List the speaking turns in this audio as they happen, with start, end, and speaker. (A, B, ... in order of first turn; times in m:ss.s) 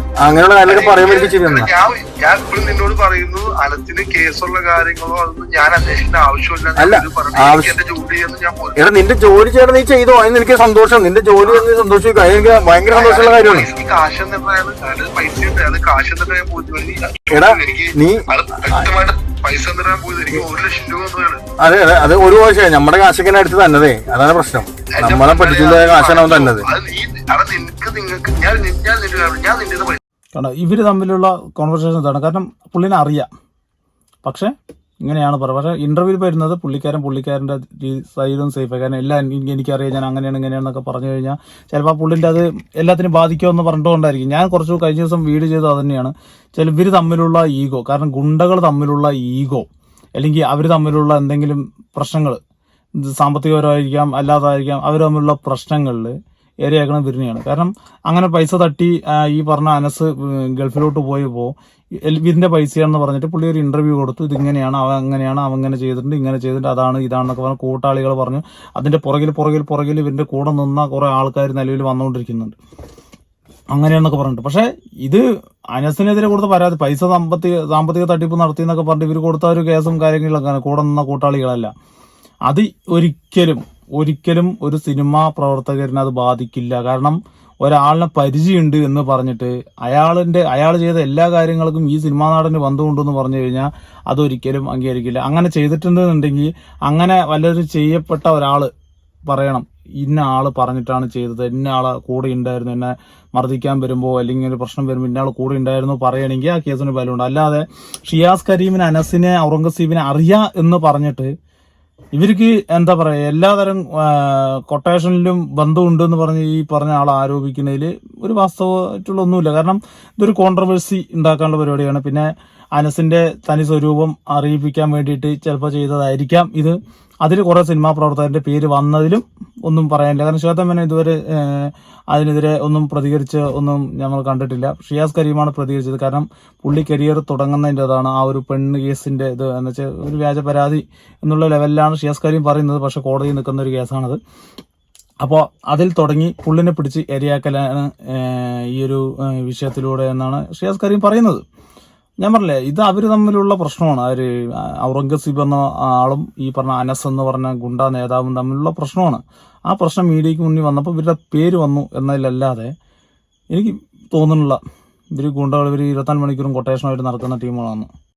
0:00.2-0:01.7 A
0:00.7-0:08.8 B
0:06.8-0:07.7 A
0:08.8-0:13.7 A
0:12.9-0:21.4 B
0:17.3-0:18.8 A
0:21.6-0:26.6 A
0:24.9-0:30.0 B
0:30.4-0:33.3 C
0:34.2-0:34.5 C
0:35.0-0:49.6 C
0:50.2-0:52.4 C
0:53.0-1:12.6 C
1:13.7-1:21.7 C
1:22.5-1:38.7 C
1:39.3-1:51.3 C
1:52.2-2:24.2 C
2:25.2-2:31.4 C
2:32.2-2:42.7 C
2:43.5-2:44.6 C
2:45.1-2:47.9 C